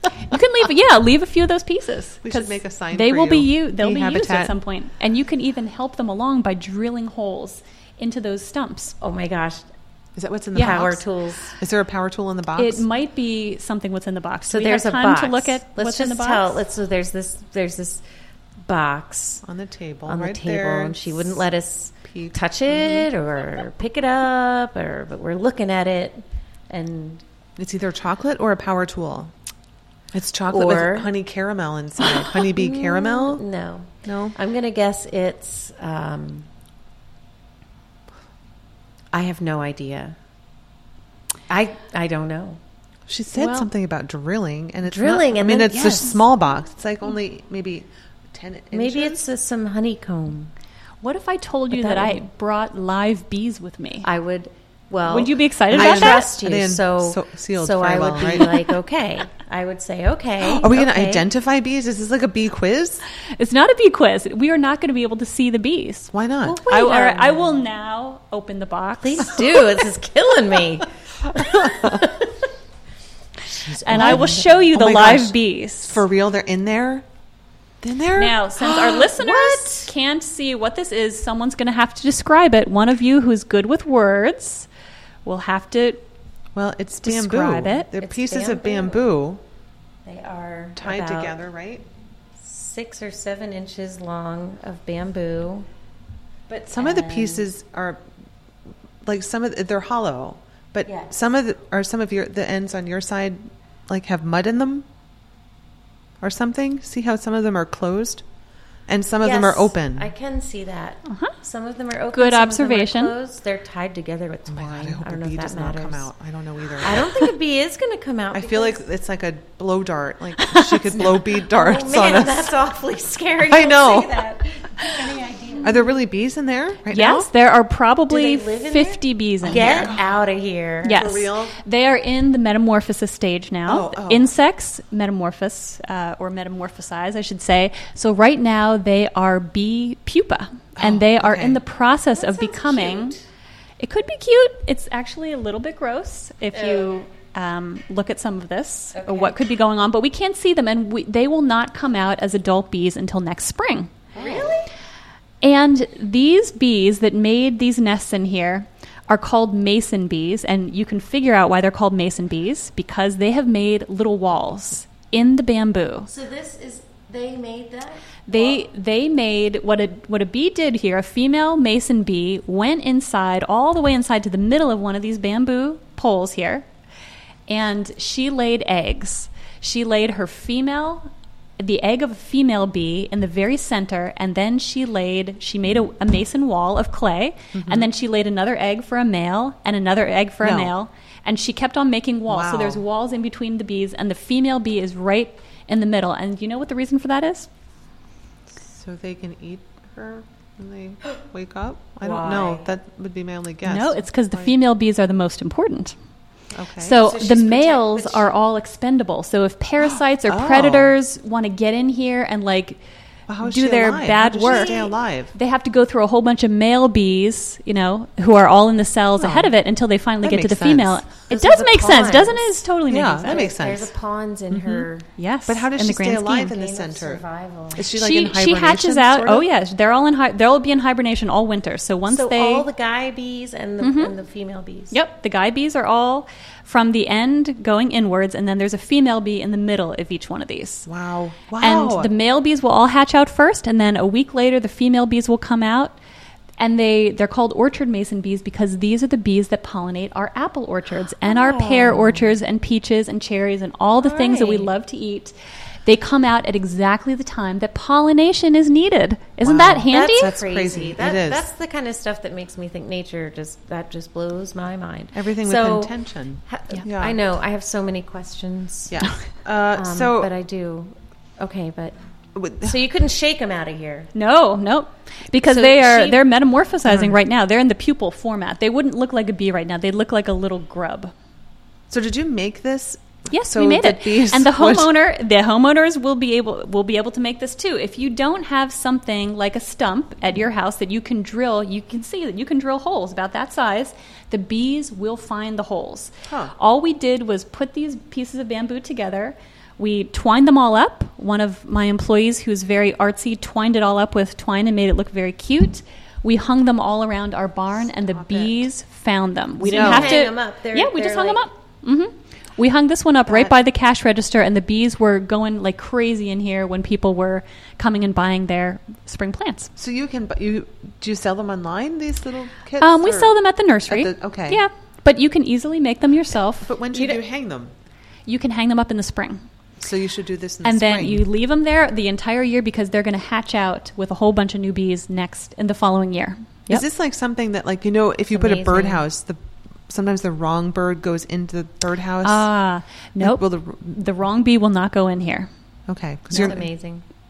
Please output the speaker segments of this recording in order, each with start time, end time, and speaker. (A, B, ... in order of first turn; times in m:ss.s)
0:00.3-0:08.9 A
0:02.2-0:04.6 B
0:09.0-0:09.6 C
0:10.2-0:11.0 B
0:10.5-0:11.6 C
0:10.5-0:10.8 A
0:11.6-0:12.8 B
0:12.6-0:16.6 A
0:14.5-0:18.0 C
0:18.6-0:19.4 C
0:19.4-0:21.4 B
0:20.1-0:27.2 C
0:22.0-0:23.1 B
0:27.6-0:29.3 B
0:30.1-0:33.4 B
0:30.5-0:31.1 C
0:32.1-0:36.5 C
0:34.0-0:34.4 B
0:39.1-0:40.2 C
0:41.5-0:42.6 C
0:43.1-0:49.3 B
0:43.3-0:43.7 A
0:44.8-0:46.2 C
0:48.7-0:50.5 C
0:51.0-0:54.1 A
0:51.7-0:52.2 C
0:54.0-1:01.2 C
0:55.1-0:56.3 A
0:55.7-0:58.6 B
1:00.4-1:03.0 B
1:03.3-1:09.4 A
1:06.1-1:06.6 B
1:06.4-1:07.7 C
1:09.0-1:12.4 C
1:11.3-1:12.1 B
1:13.5-1:17.0 B
1:13.8-1:16.0 A
1:13.9-1:14.5 C
1:17.8-1:19.8 B
1:18.2-1:24.7 A
1:19.2-1:19.7 C
1:25.2-1:26.0 A
1:26.6-1:29.4 B
1:27.0-1:27.9 A
1:28.0-1:29.1 C
1:30.0-1:31.4 C
1:30.8-1:31.8 B
1:32.4-1:35.7 C
1:36.5-1:37.5 C
1:36.7-1:38.0 B
1:39.0-1:44.8 B
1:40.8-1:41.1 C
1:46.2-1:48.2 B
1:48.9-1:50.1 B
1:49.2-1:56.1 C
1:51.1-1:51.3 A
1:52.1-1:53.1 A
1:54.5-1:57.3 B
1:56.8-1:58.8 C
1:58.3-2:02.6 B
2:00.4-2:00.8 A
2:00.9-2:05.9 C
2:03.5-2:04.2 B
2:05.6-2:07.3 B
2:06.9-2:10.0 A
2:08.1-2:11.2 C
2:09.4-2:10.0 B
2:10.8-2:23.2 A
2:10.9-2:11.6 B
2:13.6-2:14.3 B
2:20.8-2:21.6 B
2:22.1-2:23.2 C
2:23.8-2:33.9 A
2:26.5-2:26.9 C
2:28.9-2:29.4 C
2:34.1-2:34.7 C
2:35.4-2:46.1 A
2:46.1-2:48.6 C
2:48.3-2:56.6 A
2:57.5-3:01.1 A
3:01.6-3:17.5 A
3:07.5-3:07.9 B
3:10.4-3:10.7 B
3:12.3-3:12.8 B
3:18.6-3:24.5 B
3:22.0-3:22.7 C
3:23.6-3:25.9 A
3:26.5-3:28.2 B
3:26.8-3:32.8 A
3:29.8-3:30.9 B
3:33.3-3:35.3 B
3:33.4-3:43.4 A
3:34.4-3:34.8 C
3:39.2-3:39.6 B
3:40.2-3:41.0 B
3:41.3-3:42.5 C
3:42.9-3:43.9 B
3:43.2-3:45.1 C
3:44.5-3:44.8 B
3:45.2-3:46.5 A
3:45.5-3:47.2 B
3:46.5-3:47.8 C
3:47.7-3:49.4 B
3:47.9-3:52.7 A
3:52.0-3:54.9 C
3:53.8-3:54.1 A
3:54.9-4:00.9 A
4:00.9-4:02.1 B
4:01.6-4:05.9 A
4:06.6-4:15.3 A
4:11.2-4:12.3 C
4:14.0-4:14.7 C
4:15.8-4:20.4 A
4:19.4-4:21.4 B
4:19.8-4:29.0 C
4:25.1-4:27.2 B
4:28.9-4:30.3 B
4:29.7-4:32.0 C
4:32.3-4:32.8 B
4:32.6-4:34.1 C
4:34.1-4:41.1 A
4:35.4-4:36.2 C
4:36.8-4:37.2 B
4:41.9-4:44.9 B
4:43.3-5:19.7 A
4:56.3-4:56.5 B
5:08.1-5:08.5 B
5:09.6-5:11.4 C
5:09.6-5:10.2 B
5:13.3-5:13.6 B
5:19.8-5:23.3 B
5:22.8-5:27.2 A
5:23.9-5:24.6 B
5:26.6-5:27.7 B
5:28.3-5:29.4 A
5:29.8-5:31.2 B
5:30.6-5:36.8 A
5:36.7-5:39.4 B
5:38.3-5:39.0 C
5:39.9-5:42.4 B
5:42.2-5:45.5 A
5:43.2-5:43.7 B
5:45.9-5:46.6 B
5:46.3-5:47.0 C